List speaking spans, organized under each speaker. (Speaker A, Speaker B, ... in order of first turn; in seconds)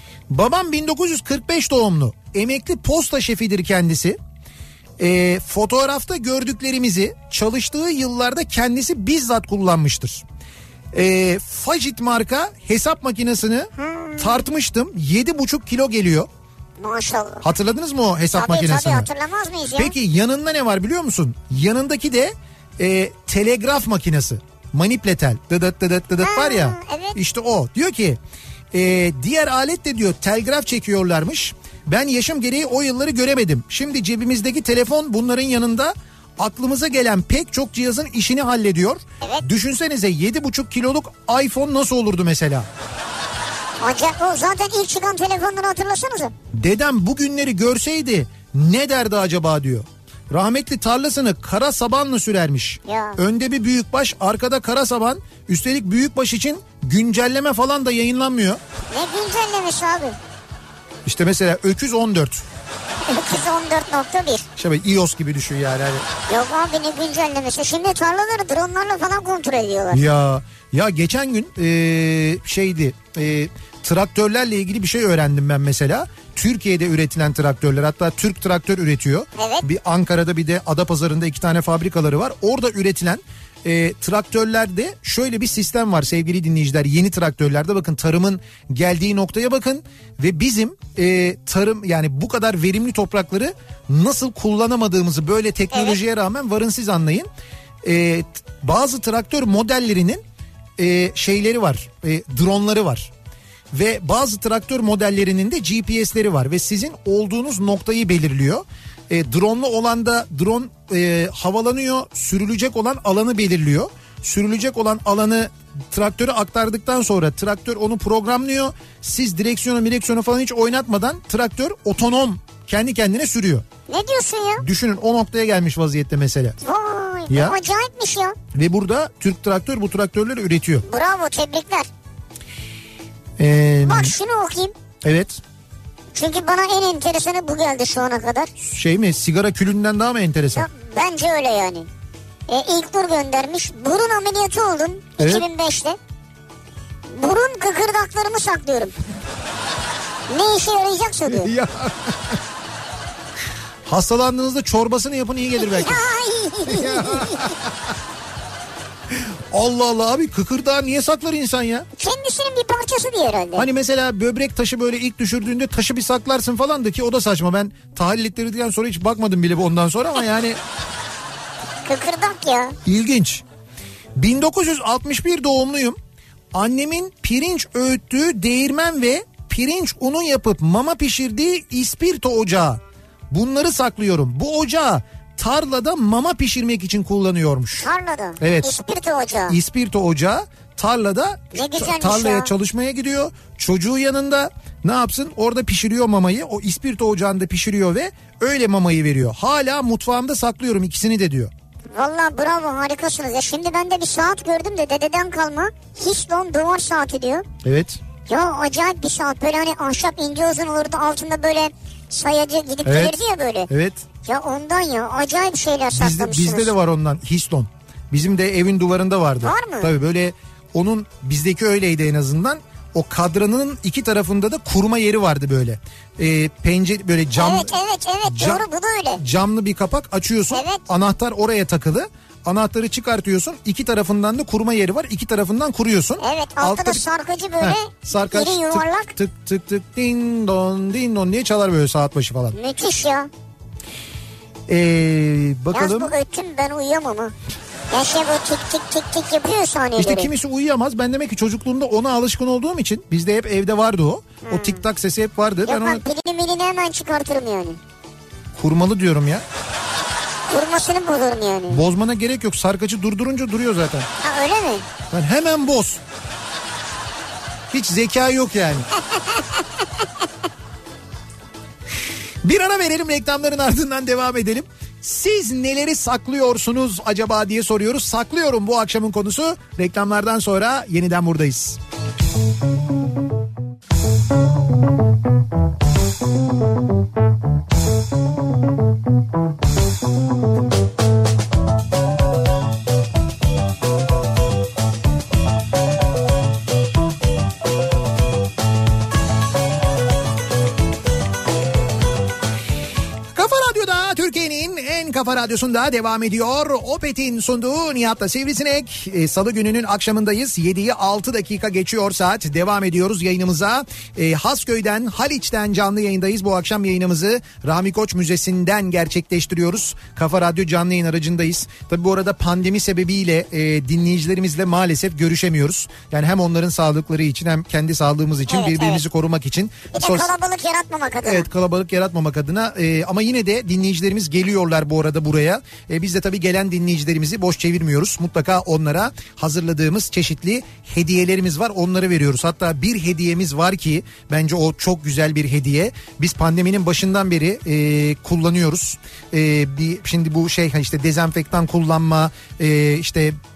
Speaker A: 0.3-4.2, 5.0-10.2, 10.9-16.3, 17.4-19.1, 19.8-28.2, 28.7-42.7, 46.5-58.6, 61.0-62.4, 64.5-66.0, 69.9-97.3, 97.8-100.2, 100.8-103.1, 103.7-123.7, 124.6-126.6, 127.3-127.6, 128.5-130.8, 133.4-134.1, 135.0-135.4, 138.6-140.7, 145.2-145.5, 151.3-152.4, 153.9-156.0, 156.7-157.8, 159.1-161.9, 163.6-170.6, 172.8-173.4, 174.2-176.0, 176.5-182.8, 183.3-187.9, 188.4-188.7, 189.5-201.5, 207.6-208.0, 212.8-213.1, 213.7-214.0, 215.9-227.7, 228.2-228.6, 229.2-237.0, 237.6-242.6, 244.7-246.1, 250.0-256.0, 258.6-259.4, 261.7-264.1, 265.1-266.0, 267.7-268.9, 272.4-281.8, 303.3-330.3, 331.2-353.4
Speaker B: 13.8-14.4, 16.8-17.4, 18.3-19.9, 26.2-27.2, 43.8-46.3, 52.9-53.2, 58.9-60.2, 63.0-64.5, 66.3-70.0, 79.3-79.6, 95.7-96.0, 123.9-124.7, 126.6-128.4, 130.8-131.9, 133.8-134.7, 136.1-138.5, 140.6-141.9, 142.5-146.0, 147.1-148.9, 150.3-151.5, 155.6-157.5, 162.0-163.7, 171.8-172.8, 187.8-189.6, 191.5-192.5, 201.9-207.4, 208.3-213.7, 214.2-216.7, 219.4-219.9, 227.3-229.2, 230.5-230.8, 236.2-239.1, 242.5-243.3, 245.7-247.3, 247.9-250.3, 254.4-254.8, 255.6-257.8, 260.5-261.8, 264.2-264.9, 269.1-269.8, 328.5-329.0, 329.9-331.5